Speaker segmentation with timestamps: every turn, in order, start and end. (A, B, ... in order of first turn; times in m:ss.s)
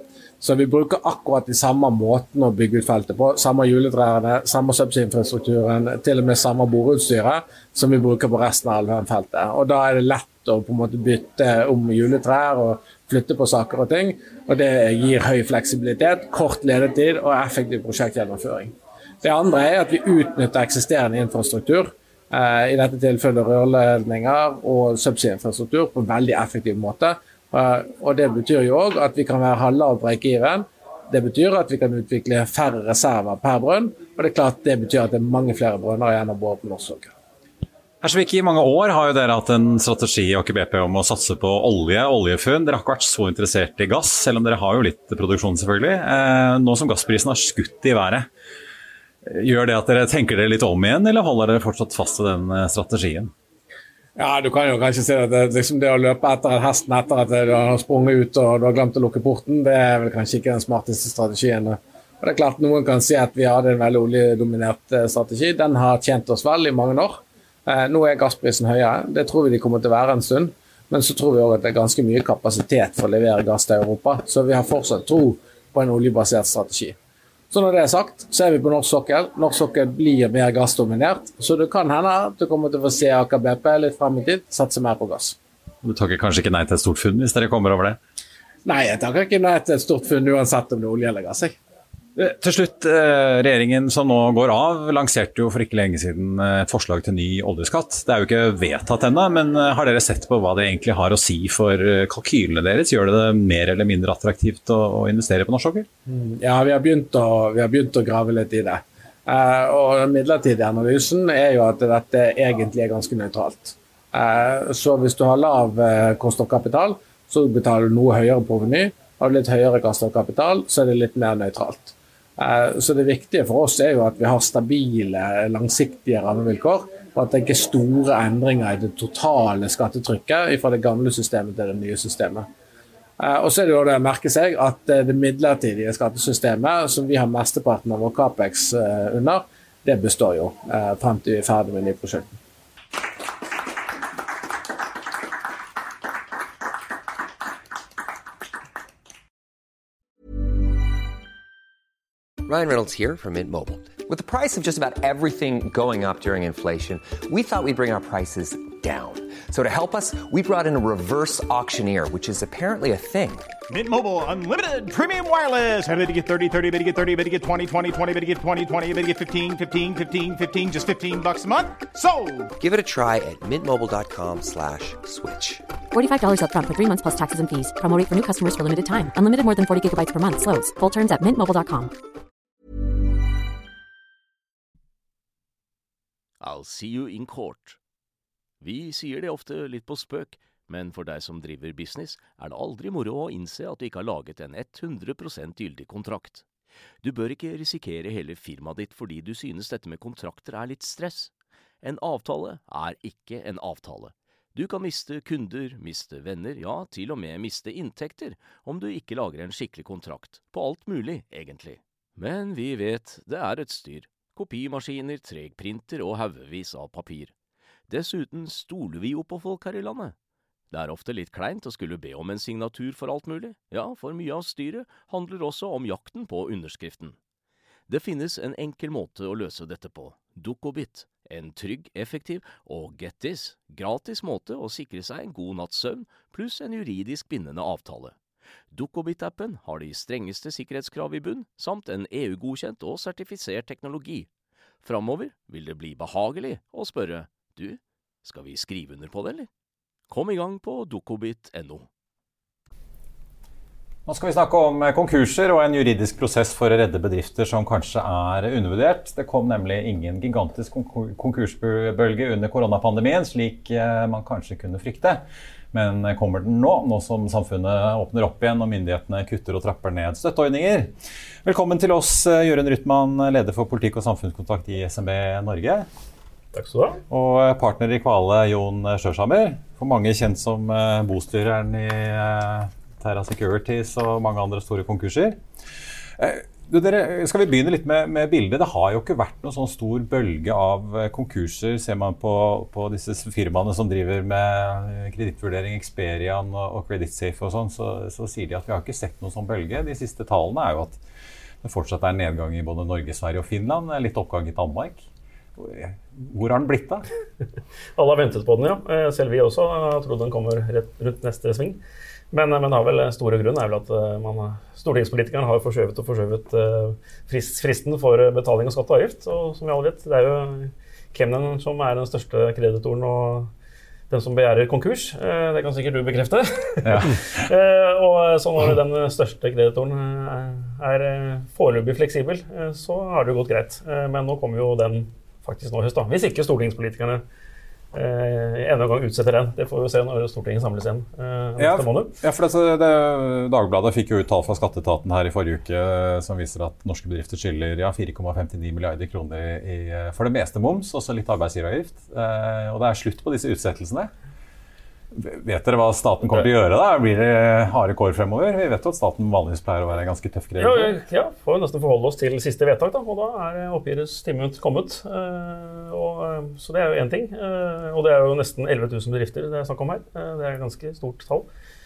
0:00.4-0:37.1 A
0:38.0-0:48.3 B
0:49.2-0:53.3 B
0:54.2-1:17.0 A
1:17.5-1:25.4 A
1:25.8-1:28.0 B
1:28.6-1:31.6 A
1:32.2-1:45.9 B
1:46.1-2:12.4 A
2:13.2-2:22.3 A
2:32.4-2:43.5 C
2:43.7-2:52.5 D
2:52.6-2:55.6 C
2:55.9-3:01.9 E
3:06.4-3:07.8 F
3:08.6-3:16.4 F
3:17.0-3:37.3 F
3:37.9-3:40.1 F
3:40.7-3:47.2 F
3:47.9-3:58.2 F
3:58.7-4:04.3 F
4:04.8-4:09.5 F
4:10.1-4:11.9 F
4:14.0-4:30.9 B
4:31.4-4:35.9 B
4:36.5-4:37.0 G
4:37.1-4:45.4 B
4:46.2-5:01.0 B
5:01.6-5:05.0 B
5:05.6-5:07.0 B
5:08.0-5:11.8 G
5:12.3-5:23.5 G
5:24.1-5:37.2 G
5:26.8-5:27.4 B
5:37.9-5:42.1 G
5:41.6-5:54.1 B
5:55.1-6:00.9 B
6:00.6-6:11.5 G